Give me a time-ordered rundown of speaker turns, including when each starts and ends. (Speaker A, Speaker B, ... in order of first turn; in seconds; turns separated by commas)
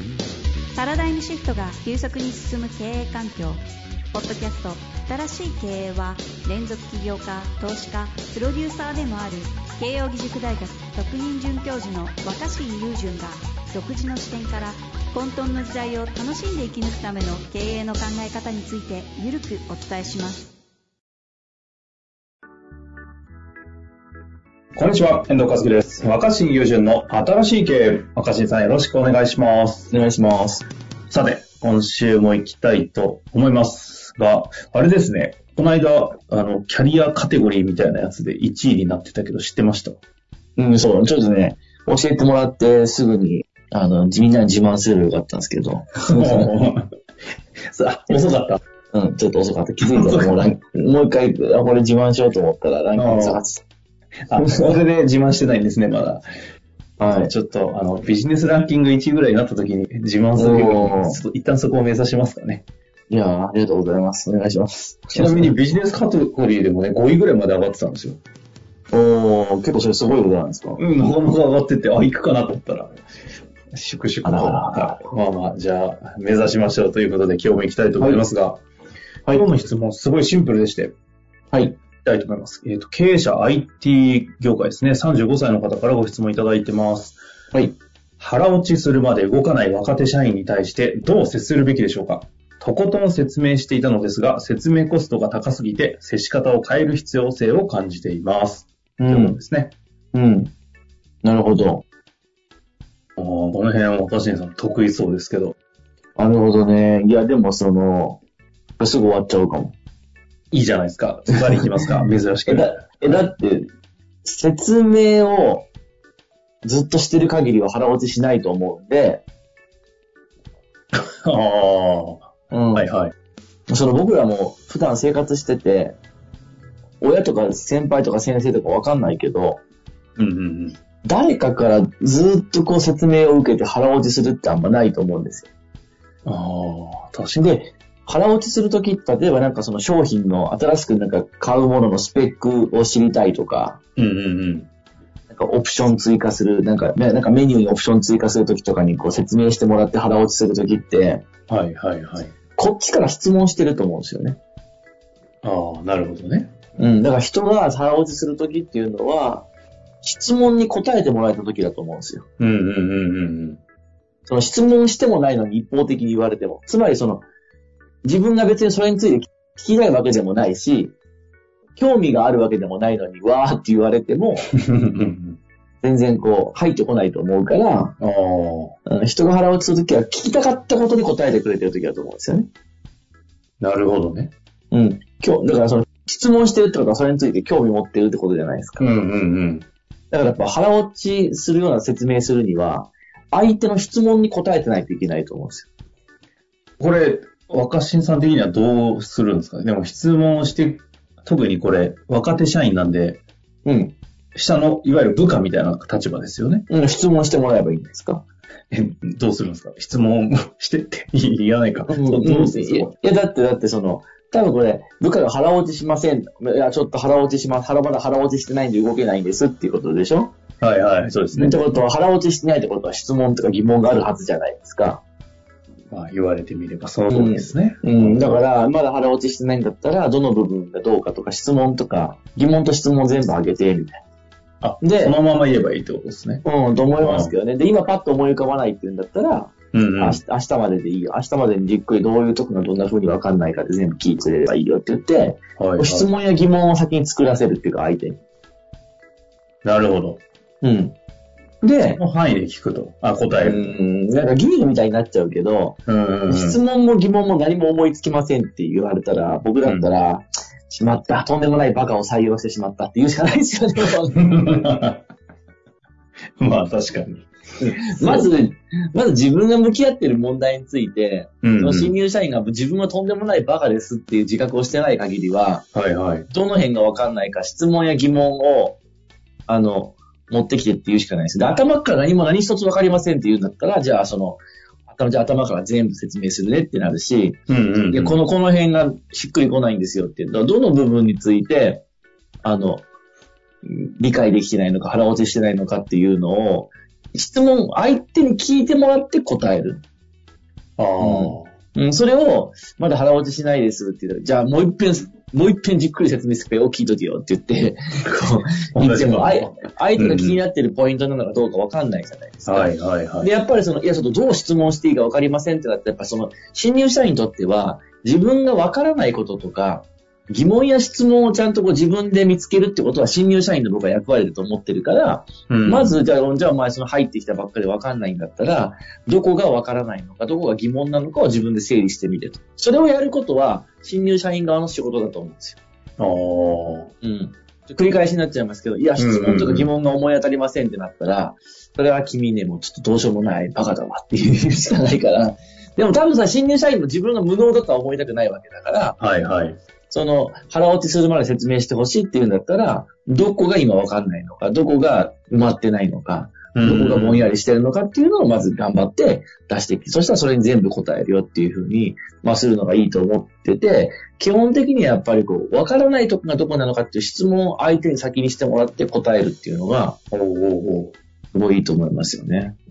Speaker A: 0.7-3.6, Speaker A: 4.1-20.5, Speaker B: 24.8-29.9, Speaker C: 29.9-30.7, Speaker B: 31.1-40.0, Speaker C: 40.6-46.5, Speaker B: 46.1-46.9, Speaker B: 47.7-48.6, Speaker C: 48.9-53.6, Speaker B: 49.9-50.5, Speaker B: 53.0-53.4, Speaker B: 54.3-56.2, Speaker C: 54.4-54.7, Speaker C: 57.0-57.3, Speaker B: 57.1-62.6, Speaker C: 60.4-61.2, Speaker C: 63.1-65.5, Speaker B: 65.2-68.2, Speaker C: 68.9-70.8, Speaker B: 70.8-73.0, Speaker B: 73.7-78.6, Speaker C: 74.2-75.1, Speaker B: 79.3-80.9, Speaker C: 81.5-81.8, Speaker B: 82.0-87.2, Speaker C: 87.5-87.8, Speaker B: 88.2-99.8, Speaker C: 99.0-99.4, Speaker C: 100.1-100.5, Speaker C: 101.2-101.8, Speaker B: 103.2-105.5, Speaker C: 106.2-108.2, Speaker C: 108.8-109.8, Speaker B: 110.5-113.3, Speaker C: 112.5-113.7, Speaker C: 114.2-115.7, Speaker C: 116.6-119.2, Speaker B: 120.9-123.1, Speaker C: 122.5-122.8, Speaker C: 123.7-126.0, Speaker C: 127.0-129.6, Speaker B: 130.2-130.8, Speaker C: 131.0-135.5, Speaker B: 136.2-137.7, Speaker C: 138.1-143.8, Speaker B: 144.0-144.7, Speaker C: 145.3-151.2, Speaker B: 151.5-152.3, Speaker C: 152.6-154.4, Speaker B: 155.4-156.6, Speaker C: 156.8-159.5, Speaker C: 160.0-162.3, Speaker B: 162.4-163.6, Speaker C: 164.3-167.3, Speaker C: 168.0-170.9, Speaker C: 171.8-174.5, Speaker B: 174.5-175.4, Speaker C: 175.8-178.0, Speaker B: 178.0-178.8, Speaker C: 178.9-182.5, Speaker B: 183.6-184.3, Speaker C: 184.7-188.9, Speaker B: 188.8-189.7, Speaker C: 190.1-195.7, Speaker B: 196.8-203.2, Speaker C: 203.7-204.0, Speaker B: 204.3-206.7, Speaker C: 206.7-208.2, Speaker B: 208.7-212.9, Speaker C: 211.9-220.3, Speaker B: 220.6-221.6, Speaker C: 221.3-225.0, Speaker B: 225.9-228.3, Speaker C: 227.1-234.0, Speaker B: 234.6-236.4, Speaker C: 234.8-235.2, Speaker C: 236.4-248.2, Speaker B: 237.0-237.3, Speaker B: 239.7-240.2, Speaker B: 245.6-246.1, Speaker B: 249.6-250.2, Speaker C: 250.6-250.9, Speaker C: 251.6-252.0, Speaker B: 252.0-253.8, Speaker C: 253.4-264.5, Speaker B: 255.9-256.6, Speaker B: 264.1-265.0, Speaker B: 266.4-268.3, Speaker C: 267.6-275.7, Speaker B: 271.4-271.9, Speaker B: 275.7-276.3, Speaker C: 276.3-278.8, Speaker C: 279.5-291.9, Speaker B: 287.5-288.2, Speaker C: 292.4-292.9, Speaker C: 293.6-299.8, Speaker B: 300.8-301.5, Speaker C: 301.0-335.6, Speaker B: 308.7-310.4, Speaker B: 312.5-313.3, Speaker B: 325.5-326.0, Speaker B: 336.0-336.9, Speaker C: 337.0-349.0, Speaker B: 339.0-339.7, Speaker B: 349.0-349.6, Speaker C: 349.9-370.0, Speaker B: 356.5-357.3, Speaker B: 370.1-370.9, Speaker C: 371.3-372.6